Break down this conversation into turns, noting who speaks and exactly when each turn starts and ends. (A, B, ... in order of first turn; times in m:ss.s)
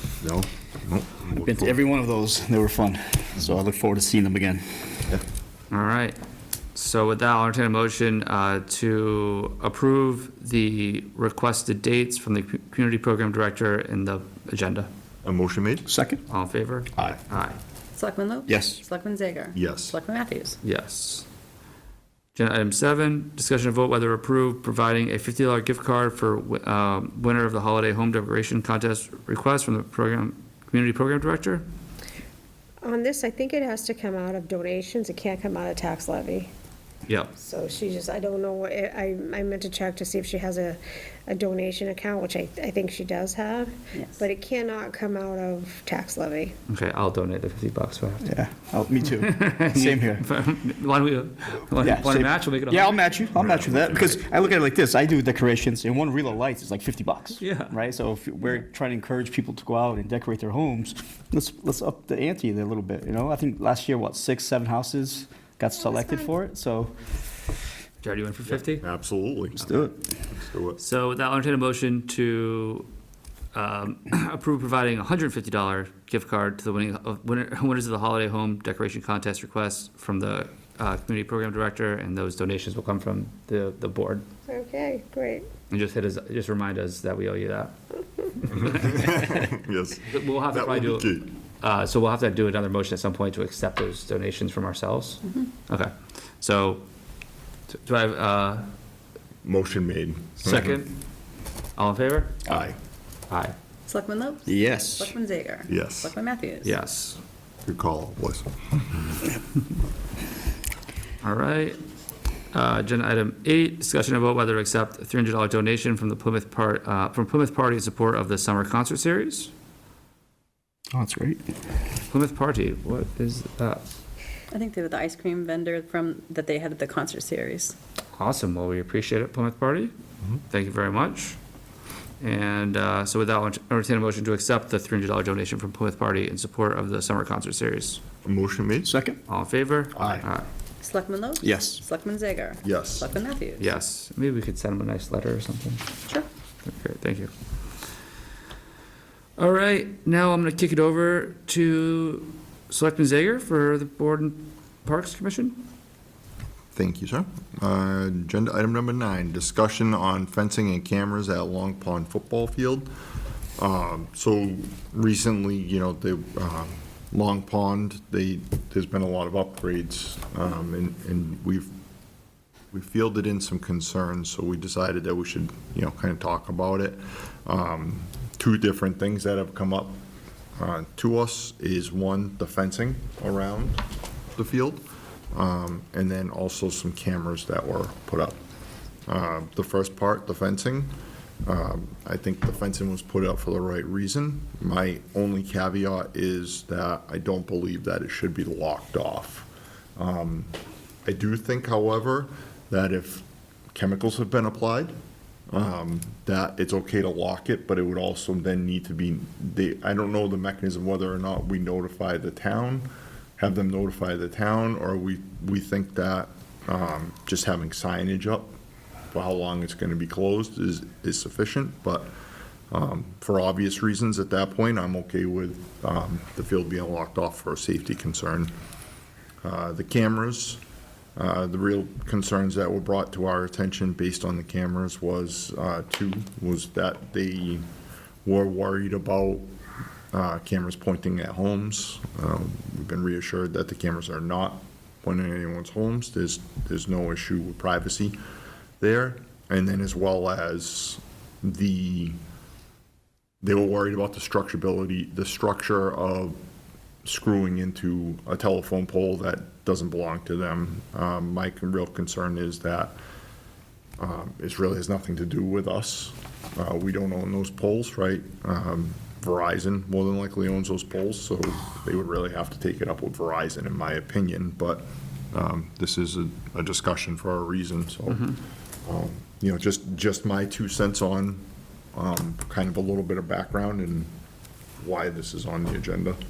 0:00.2-0:01.8 A
0:01.4-0:05.0 B
0:05.7-0:06.2 C
0:06.8-0:14.9 C
0:15.2-0:15.9 A
0:15.9-0:16.2 B
0:16.3-0:17.6 C
0:18.0-0:20.6 D
0:18.5-0:18.8 B
0:19.5-0:20.0 A
0:20.6-0:21.3 C
0:22.4-0:31.6 C
0:32.8-0:36.5 E
0:37.1-0:37.3 C
0:37.4-0:46.6 E
0:44.0-0:44.2 D
0:46.7-0:48.3 C
0:48.2-0:50.2 B
0:49.2-0:53.0 C
0:51.8-1:07.0 B
0:53.3-0:54.2 A
0:57.4-0:57.8 C
1:05.8-1:06.3 E
1:08.0-1:08.8 C
1:08.7-1:09.6 A
1:09.6-1:10.0 B
1:10.3-1:10.8 A
1:10.8-1:12.9 C
1:13.5-1:24.2 C
1:24.5-1:25.5 E
1:25.7-1:27.7 C
1:28.4-1:29.1 C
1:28.6-1:31.3 A
1:30.1-1:36.8 C
1:37.7-1:38.7 C
1:39.4-1:40.8 A
1:40.4-1:41.0 C
1:41.8-1:42.6 C
1:42.5-1:42.8 A
1:43.3-1:43.6 C
1:43.9-1:46.8 D
1:44.5-1:45.2 B
1:45.7-1:46.1 A
1:46.6-1:47.2 C
1:47.6-1:49.1 A
1:51.2-1:51.8 C
1:52.5-1:59.5 C
2:00.9-2:01.4 B
2:02.1-2:03.8 C
2:04.5-2:07.8 D
2:08.2-2:09.9 C
2:10.5-2:11.4 C
2:12.2-2:18.0 C
2:18.2-2:19.0 A
2:18.8-2:19.2 B
2:19.3-2:20.5 C
2:19.9-2:20.3 A
2:20.8-2:23.7 D
2:21.4-2:21.8 B
2:22.6-2:23.1 A
2:23.6-2:25.8 C
2:26.6-2:27.3 C
2:29.4-2:35.6 C
2:36.7-2:42.9 A
2:43.6-2:51.7 A
2:52.7-3:00.0 A
3:00.6-3:03.8 A
3:04.4-3:08.4 A
3:09.1-3:10.9 A
3:11.5-3:24.9 A
3:25.5-3:38.6 A
3:39.1-3:42.1 A
3:42.7-3:48.5 A
3:49.4-3:50.6 A
3:51.2-3:57.6 A
3:58.2-3:59.5 A
4:00.1-4:08.2 A
4:08.8-4:12.2 A
4:13.4-4:16.4 A
4:17.0-4:23.0 A
4:24.0-4:44.1 A
4:44.8-4:46.2 A